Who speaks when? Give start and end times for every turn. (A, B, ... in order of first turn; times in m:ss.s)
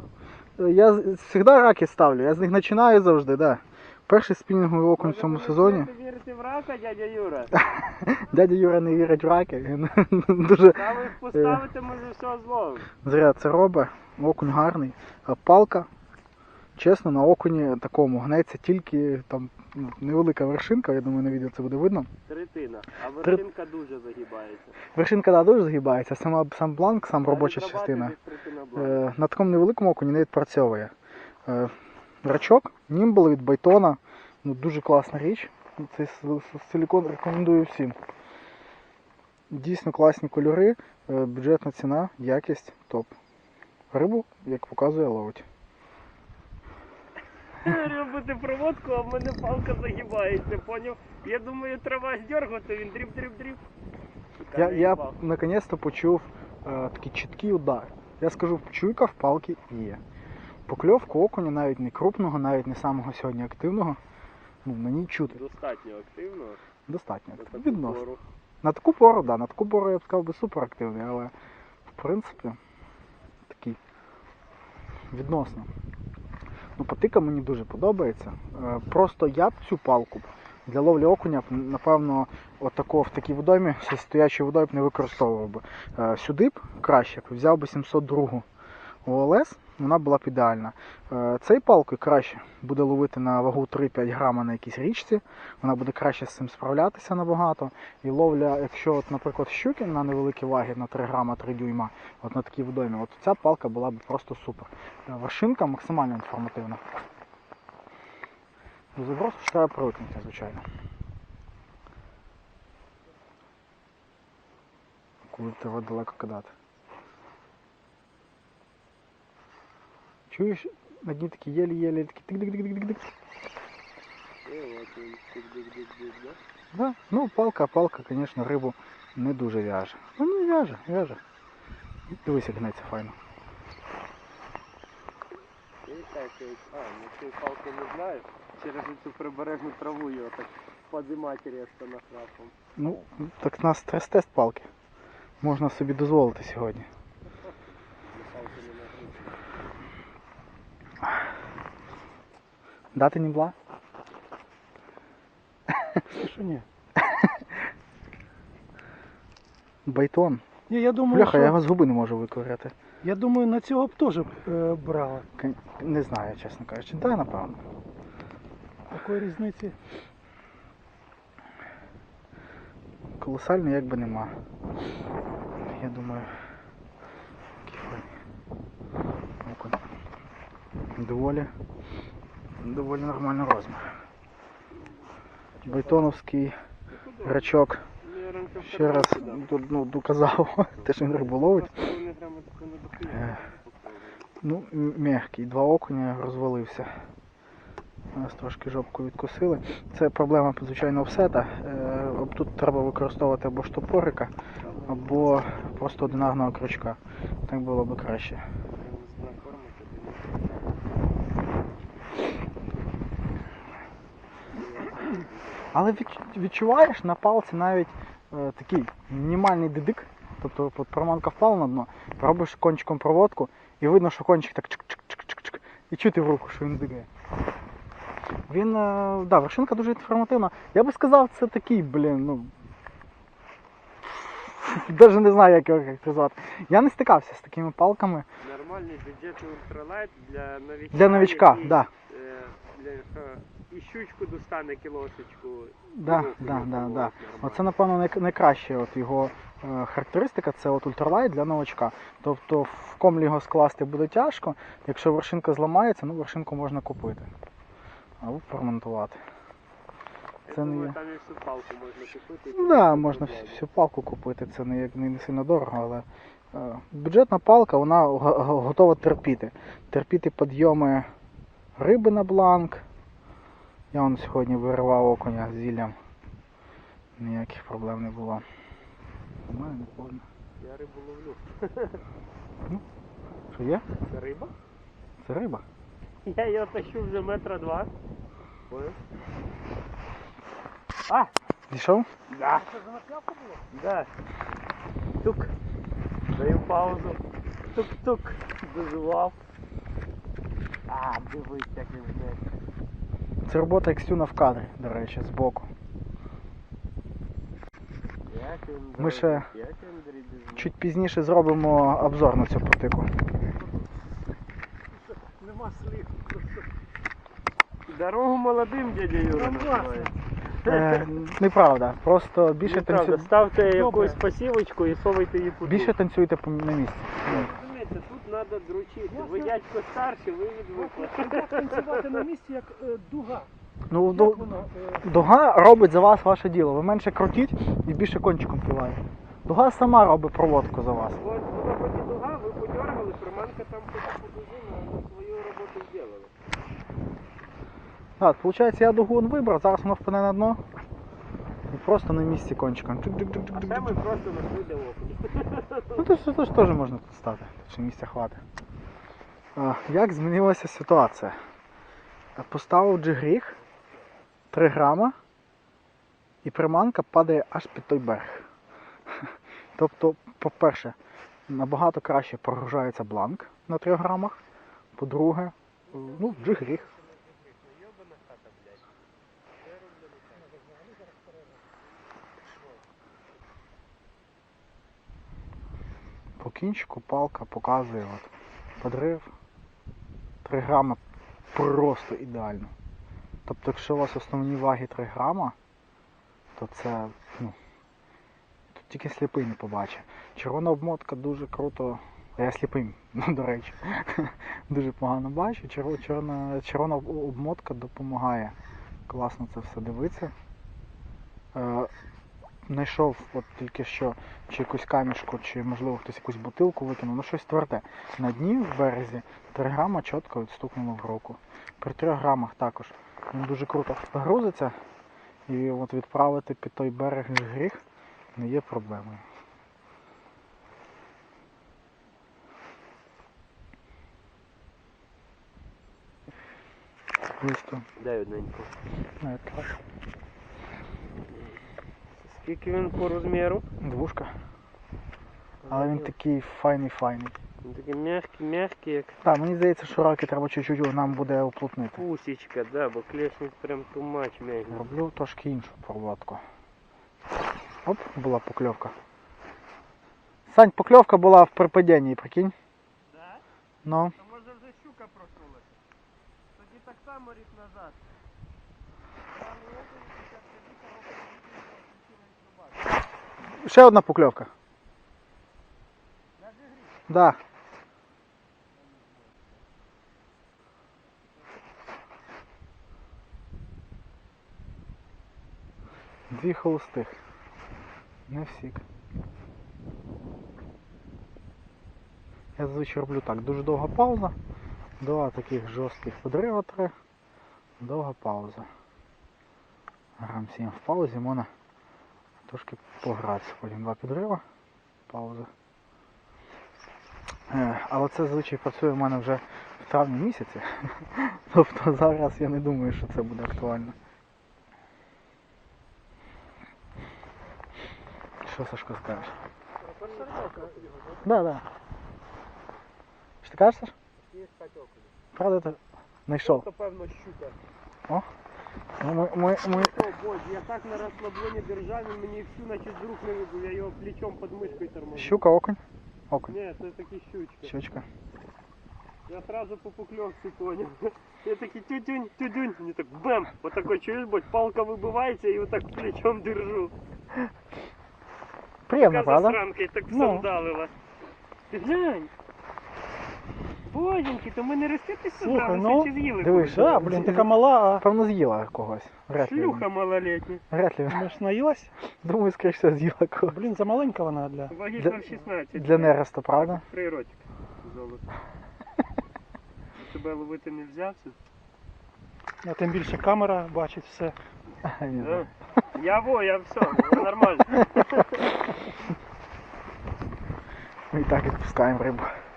0:00.6-0:05.9 A
0:05.0-0:07.5 B
0:07.6-0:11.6 A
0:10.7-0:12.9 B
0:13.0-0:15.9 A
0:16.8-0:22.1 A
0:22.3-0:24.8 B
0:24.9-0:28.1 A
0:27.2-0:29.0 B
0:28.8-0:30.9 A
0:31.4-0:38.0 A
0:39.5-0:43.1 A
0:43.9-0:45.4 A
0:47.6-0:53.6 B
0:54.4-0:55.2 B
0:54.5-1:00.0 A
1:00.7-1:04.0 A
1:04.6-1:05.4 A
1:05.3-1:06.6 B
1:06.9-1:08.0 A
1:07.4-1:08.2 B
1:08.6-1:11.3 A
1:11.9-1:12.6 A
1:13.4-1:13.8 A
1:15.1-1:15.7 A
1:16.8-1:28.4 A
1:29.0-1:46.8 A
1:48.9-1:50.6 A
1:55.3-1:56.5 A
2:00.3-2:03.0 A
2:04.4-2:06.4 B
2:06.7-2:11.2 A
2:12.1-2:13.2 A
2:15.8-2:22.5 B
2:22.8-2:24.7 A
2:25.4-2:26.9 A
2:28.0-2:29.4 B
2:32.9-2:33.5 A
2:36.1-2:36.6 C
2:37.0-2:37.5 A
2:39.8-2:40.4 A
2:40.7-2:41.6 C
2:41.1-2:42.7 A
2:43.0-2:45.2 C
2:45.4-2:47.6 A
2:48.9-2:49.8 C
2:53.2-2:54.3 A
2:55.6-2:56.3 A
2:57.6-2:58.1 A
2:59.4-2:59.8 A
3:00.9-3:01.5 A
3:02.6-3:03.9 A
3:05.6-3:06.0 B
3:05.6-3:06.5 A
3:06.9-3:09.5 B
3:07.2-3:07.8 A
3:08.6-3:11.7 A
3:10.8-3:14.2 B
3:13.1-3:13.4 A
3:14.4-3:16.9 A
3:18.1-3:24.3 A
3:24.6-3:26.5 B
3:24.9-3:28.4 A
3:28.7-3:30.4 B
3:34.5-3:36.0 B
3:35.7-3:47.1 A
3:48.5-3:52.5 A
3:54.4-3:58.3 A
3:58.4-4:07.7 B
4:00.9-4:01.9 A
4:05.9-4:17.3 A
4:18.2-4:19.2 A
4:20.4-4:23.6 B
4:20.5-4:21.0 A
4:22.5-4:31.1 A
4:31.8-4:32.8 A
4:33.9-4:36.0 A
4:37.2-4:38.4 A
4:39.5-4:40.2 A
4:40.6-4:42.0 B
4:43.5-4:43.8 A
4:44.1-4:44.5 B
4:45.2-4:45.6 A
4:46.2-4:47.9 B
4:48.7-4:49.0 B
4:51.7-4:52.1 A
4:52.3-4:52.7 B
4:52.5-4:53.7 C
4:53.7-4:54.1 B
4:55.2-4:55.5 B
4:56.3-4:57.2 B
4:57.7-4:59.4 B
5:00.9-5:02.6 B
5:03.5-5:05.7 A
5:08.2-5:10.7 B
5:09.0-5:09.5 A
5:10.5-5:13.1 A
5:15.2-5:16.6 C
5:17.9-5:20.1 B
5:19.3-5:20.2 C
5:20.6-5:21.0 B
5:20.6-5:23.3 A
5:22.6-5:25.9 B
5:23.6-5:24.2 C
5:25.6-5:27.5 A
5:27.2-5:32.2 B
5:29.1-5:29.5 C
5:30.7-5:33.5 C
5:33.9-5:34.5 A
5:34.1-5:35.0 C
5:35.0-5:41.2 A
5:41.2-5:46.3 B
5:48.2-5:50.6 A
5:51.7-5:54.0 A
5:53.5-5:56.0 B
5:56.0-5:58.4 A
5:59.6-6:01.4 A
6:02.4-6:03.6 A
6:04.5-6:05.2 A
6:06.4-6:08.5 A
6:09.1-6:11.0 A
6:11.5-6:14.4 A
6:15.0-6:16.9 A
6:15.9-6:18.8 B
6:19.6-6:20.6 B
6:26.4-6:29.3 A
6:30.4-6:31.0 A
6:31.5-6:32.7 A
6:33.4-6:35.6 A
6:36.6-6:37.6 A
6:38.7-6:48.6 A
6:49.1-6:50.3 A
6:51.5-6:51.9 A
6:52.6-7:04.7 A
7:05.5-7:07.8 A
7:08.4-7:09.2 A
7:17.4-7:17.8 A
7:18.0-7:18.7 B
7:19.2-7:19.7 A
7:22.2-7:23.6 B
7:23.8-7:24.3 A
7:25.7-7:26.1 B
7:25.7-7:27.3 A
7:27.6-7:29.2 B
7:29.2-7:32.0 A
7:32.0-7:34.8 B
7:34.7-7:36.4 A
7:37.8-7:38.9 A
7:40.5-7:42.5 A
7:43.1-7:43.4 B
7:43.8-7:44.2 A
7:44.2-7:45.8 B
7:46.6-7:48.0 B
7:53.4-7:54.5 A
7:57.1-7:57.4 A
8:06.3-8:07.2 A
8:08.3-8:08.8 A
8:12.6-8:14.3 A
8:15.0-8:16.9 A
8:17.8-8:18.7 A
8:20.2-8:21.5 A
8:22.5-8:24.4 A
8:25.1-8:25.5 A
8:27.5-8:34.0 A
8:38.4-8:39.3 A
8:39.8-8:41.2 B
8:40.0-8:41.2 C
8:41.2-8:41.6 A
8:43.4-8:43.9 A
8:44.2-8:45.1 B
8:45.3-8:46.6 A
8:46.4-8:47.6 B
8:49.0-8:50.0 A
8:49.6-8:55.4 B
8:55.1-8:56.5 A
8:56.5-8:57.7 B
8:57.6-8:58.0 A
8:59.3-9:06.9 B
9:08.9-9:09.6 A
9:08.9-9:10.9 B
9:10.1-9:10.5 C
9:11.7-9:12.3 B
9:13.9-9:17.1 B
9:15.4-9:18.0 C
9:16.4-9:19.9 A
9:19.4-9:20.6 B
9:20.7-9:21.3 A
9:21.1-9:21.9 C
9:22.2-9:23.6 A
9:23.5-9:24.7 C
9:24.7-9:28.2 B
9:25.0-9:26.8 A
9:30.0-9:31.4 B
9:32.6-9:34.3 C
9:34.8-9:35.5 A
9:35.2-9:38.4 B
9:41.1-9:42.3 A